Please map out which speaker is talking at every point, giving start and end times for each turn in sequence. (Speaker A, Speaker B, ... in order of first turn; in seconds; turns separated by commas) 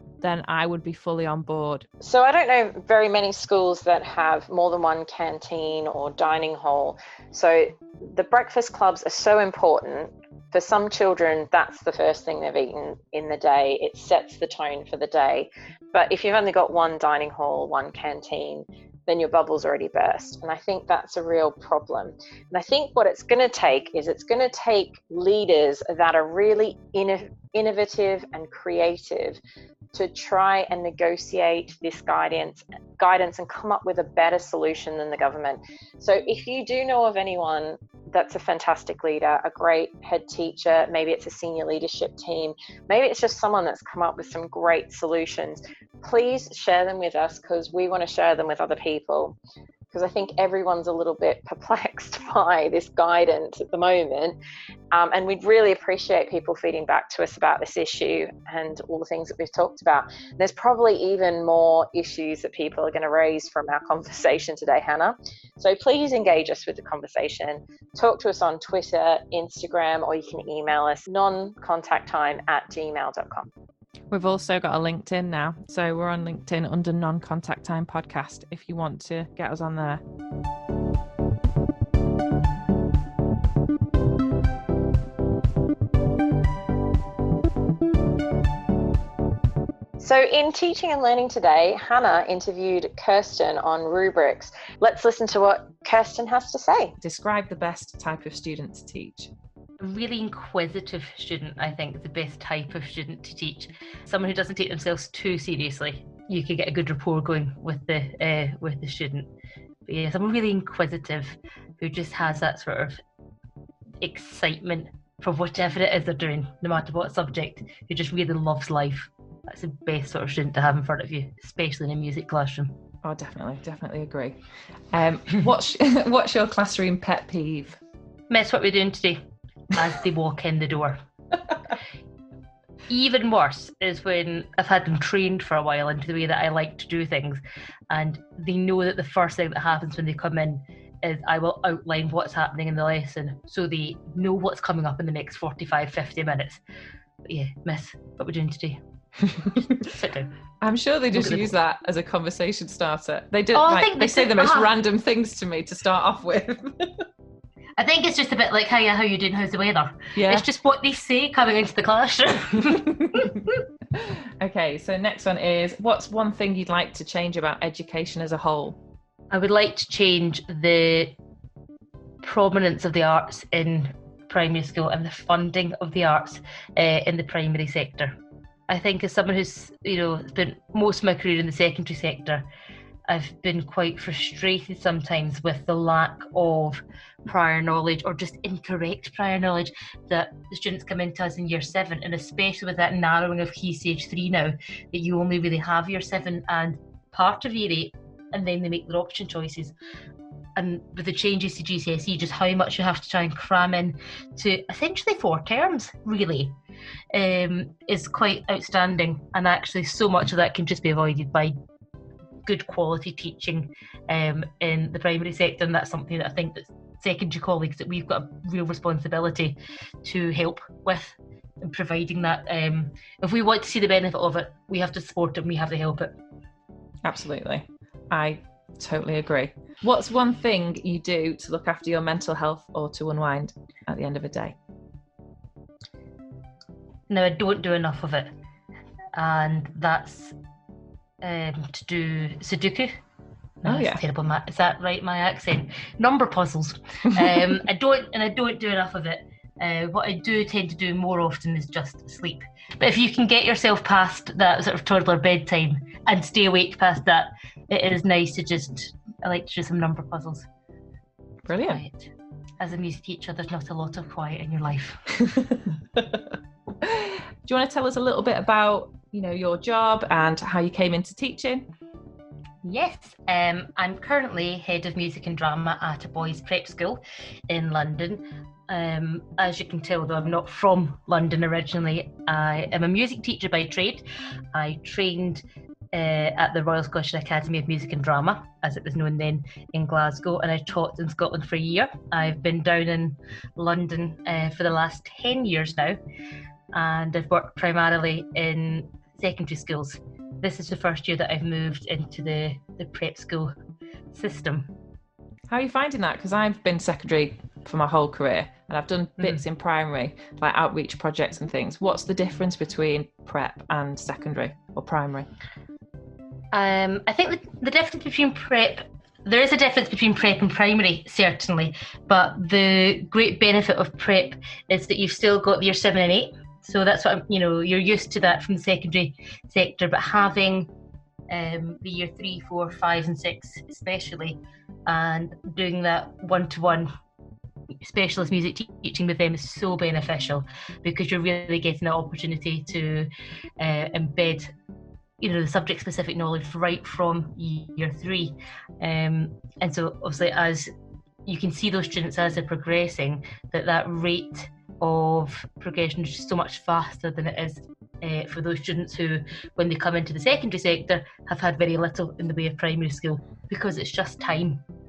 Speaker A: 0.2-1.9, Speaker B: 2.0-29.4, Speaker B: 29.9-49.4, Speaker B: 49.9-54.4, Speaker B: 54.9-73.5, Speaker A: 74.1-80.0, Speaker B: 90.0-96.9, Speaker A: 97.0-99.3, Speaker C: 99.8-109.3, Speaker C: 109.9-113.0, Speaker C: 114.0-122.8, Speaker A: 123.0-124.4, Speaker A: 124.9-127.8, Speaker C: 128.3-131.0, Speaker C: 132.9-146.6, Speaker C: 147.2-148.8, Speaker C: 149.4-150.3, Speaker A: 150.6-157.1, Speaker C: 151.1-151.5, Speaker C: 153.5-154.7, Speaker C: 157.8-163.6, Speaker A: 160.2-160.5, Speaker A: 163.0-163.3, Speaker A: 163.9-168.8, Speaker C: 169.3-171.2, Speaker C: 172.2-178.2, Speaker C: 178.7-182.5, Speaker C: 183.1-199.7, Speaker C: 200.6-206.5, Speaker C: 207.1-211.6, Speaker C: 212.4-226.1, Speaker A: 227.0-234.6, Speaker C: 237.1-238.3, Speaker C: 239.1-240.3, Speaker C: 241.2-242.9, Speaker C: 243.6-260.5, Speaker A: 243.6-244.0, Speaker A: 247.2-247.6, Speaker A: 261.5-261.8, Speaker C: 261.7-262.1, Speaker C: 262.6-265.0, Speaker A: 265.4-266.2, Speaker A: 266.8-271.7, Speaker C: 272.6-296.0, Speaker C: 296.7-303.6, Speaker C: 304.1-304.7, Speaker A: 305.5-315.3, Speaker C: 316.5-330.7, Speaker C: 331.3-336.9, Speaker C: 337.8-344.5, Speaker C: 345.2-350.7, Speaker C: 351.3-364.6